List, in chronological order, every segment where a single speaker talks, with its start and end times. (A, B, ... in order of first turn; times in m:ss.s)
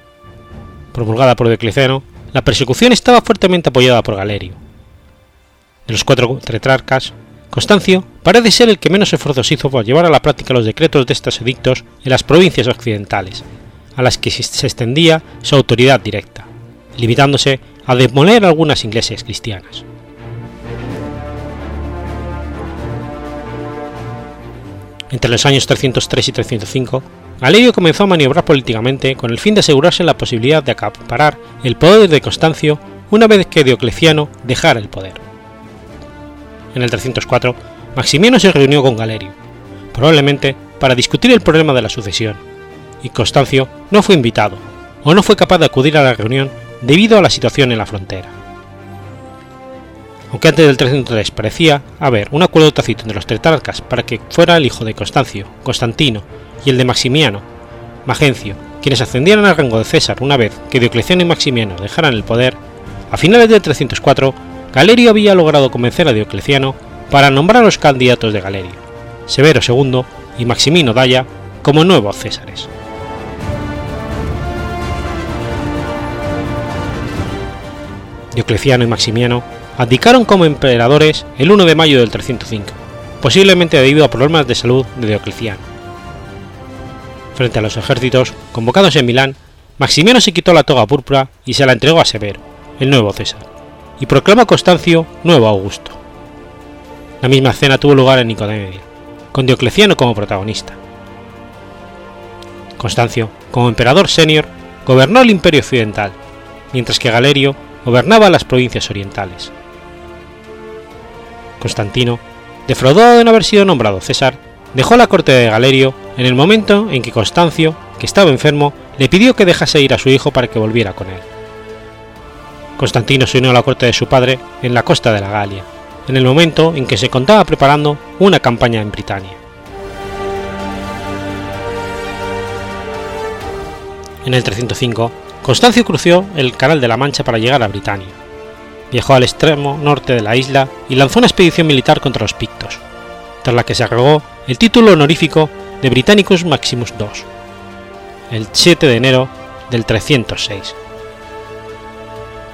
0:00.9-0:04.6 A
0:05.8-0:13.4 A
0:14.0-0:19.8 A
0:25.1-0:35.2 A
0:36.7-0:39.3 A
0:39.9-0:42.4 A
0:43.0-0:48.3 A
0:50.3-0:57.4 A
0:58.0-1:02.6 A
1:03.1-1:12.7 A
1:18.3-1:25.6 A
1:27.3-1:33.4 A
1:34.0-1:36.0 A
1:37.2-1:40.8 A
1:42.8-1:46.2 A
1:46.7-1:49.5 A
1:51.6-2:01.3 A
2:02.8-2:09.4 A
2:14.2-2:18.2 A
2:18.9-2:22.8 A
2:23.4-2:27.3 A
2:28.3-2:30.8 A